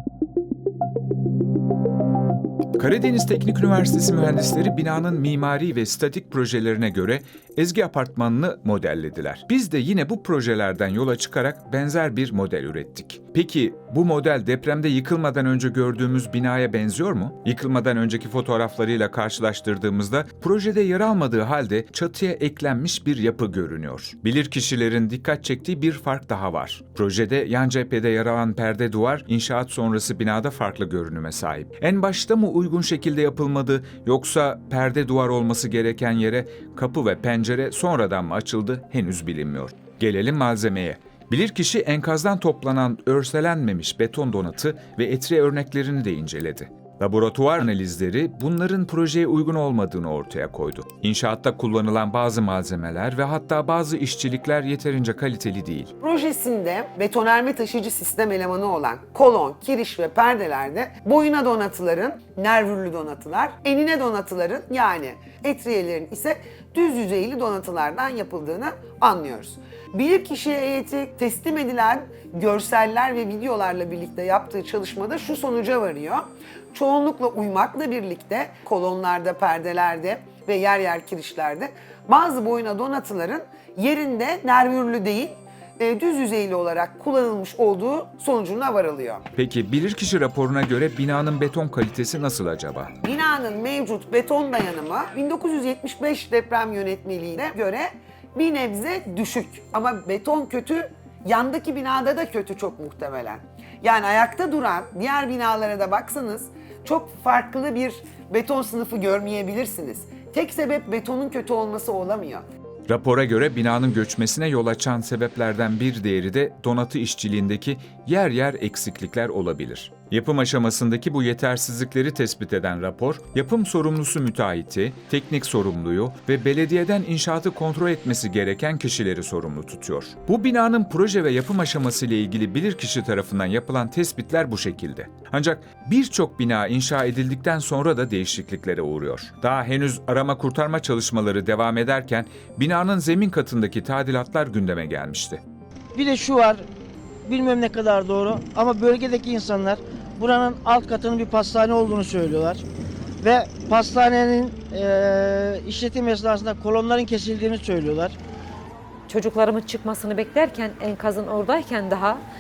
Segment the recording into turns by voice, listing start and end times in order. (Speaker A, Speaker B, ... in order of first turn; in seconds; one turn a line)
Speaker A: 2.8-55.9
Speaker B: 56.0-89.2
Speaker A: 89.3-92.9
Speaker B: 93.0-112.4
Speaker A: 112.9-145.4
Speaker C: 145.9-146.7
Speaker C: 147.3-152.7
Speaker C: 153.2-158.2
Speaker D: 159.1-162.2